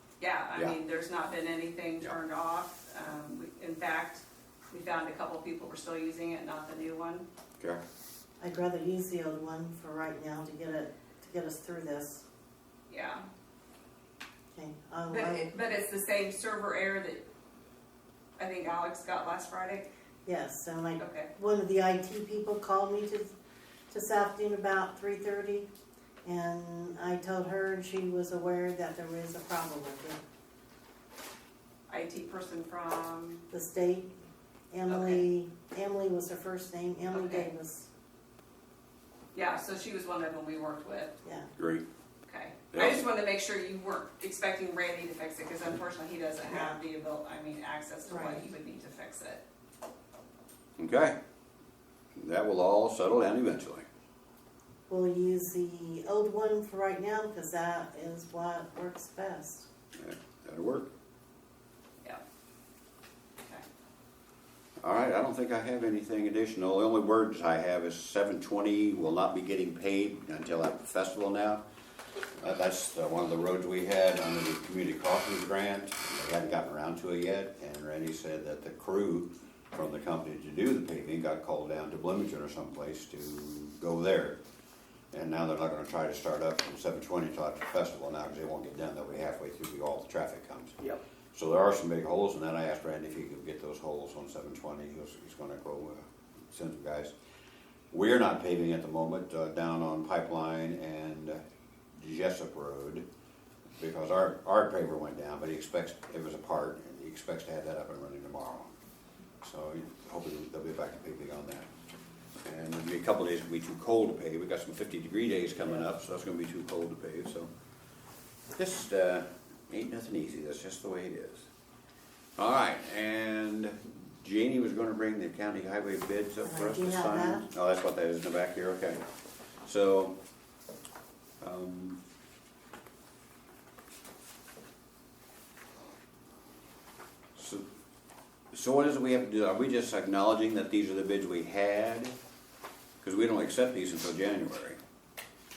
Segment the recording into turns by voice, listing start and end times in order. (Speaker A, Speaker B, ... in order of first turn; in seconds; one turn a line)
Speaker A: 0.2-7.2
Speaker B: 8.4-12.2
Speaker A: 12.9-13.2
Speaker B: 14.5-15.5
Speaker A: 15.1-17.2
Speaker A: 18.4-19.9
Speaker B: 20.2-23.3
Speaker A: 21.0-21.3
Speaker B: 23.9-25.7
Speaker B: 26.2-30.2
Speaker A: 31.9-33.4
Speaker B: 33.5-34.1
Speaker B: 34.7-37.9
Speaker A: 34.9-35.2
Speaker A: 37.1-37.5
Speaker A: 39.3-41.1
Speaker B: 41.2-41.5
Speaker C: 41.6-41.8
Speaker A: 42.2-49.4
Speaker C: 42.7-43.0
Speaker B: 46.4-46.8
Speaker B: 48.0-48.4
Speaker C: 50.8-51.1
Speaker C: 52.2-53.9
Speaker B: 54.9-59.7
Speaker C: 60.0-60.9
Speaker C: 64.8-71.6
Speaker C: 72.4-84.4
Speaker C: 85.1-90.8
Speaker C: 91.3-97.1
Speaker C: 97.9-101.4
Speaker C: 102.0-103.0
Speaker C: 103.8-108.7
Speaker C: 109.4-111.7
Speaker C: 112.4-117.5
Speaker C: 118.5-121.5
Speaker C: 122.4-129.0
Speaker B: 126.4-127.5
Speaker C: 129.6-130.1
Speaker C: 131.4-132.0
Speaker C: 137.3-137.6
Speaker C: 138.5-142.1
Speaker C: 143.0-144.8